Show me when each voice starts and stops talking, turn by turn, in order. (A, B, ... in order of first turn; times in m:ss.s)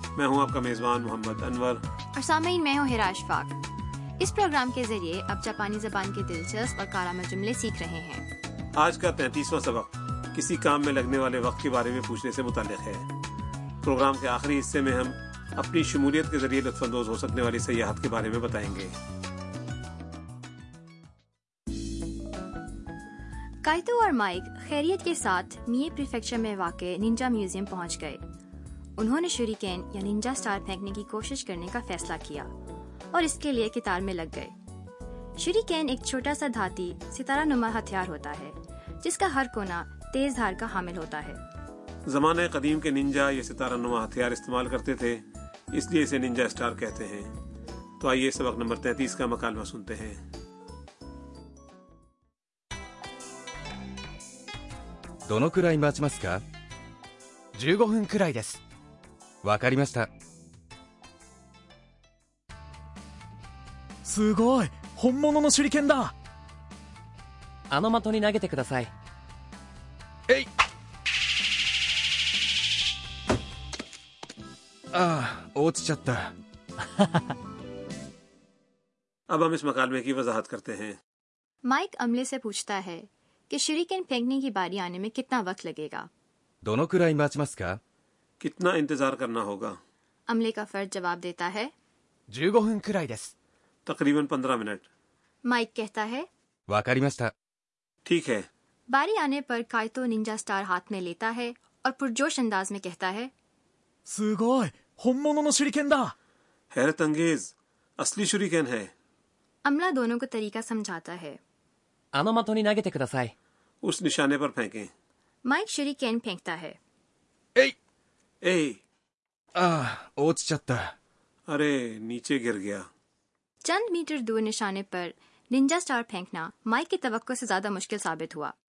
0:00.2-0:01.8 A
0:02.2-0:03.6 B
0:04.2-0:08.3 B
0:08.7-0:13.1 A
0:13.8-0:19.0 A
0:23.6-0:28.2 B
0:29.0-0:32.5 B
0:33.1-0:34.6 B
0:35.4-0:41.4 B
0:42.1-0:47.4 A
0:48.0-0:50.2 A
0:55.3-0:56.4 C
0:57.7-0:58.3 D
0:59.4-1:00.1 C
1:04.0-1:06.1 D
1:07.7-1:08.9 E
1:14.9-1:16.3 C
1:19.3-1:21.0 A
1:21.6-1:26.1 B
1:26.6-1:27.8 C
1:28.4-1:29.8 A
1:30.3-1:31.7 B
1:33.9-1:34.9 A
1:35.4-1:36.3 B
1:36.7-1:37.3 C
1:38.0-1:38.5 A
1:38.9-1:43.3 B
1:44.1-1:46.1 D
1:46.7-1:48.9 A
1:49.6-1:51.4 B
1:52.1-1:53.3 E
1:53.8-1:54.9 A
1:55.4-1:56.8 B
1:58.4-1:58.8 A
1:59.6-2:00.9 C
2:01.5-2:02.9 A
2:03.6-2:08.5 B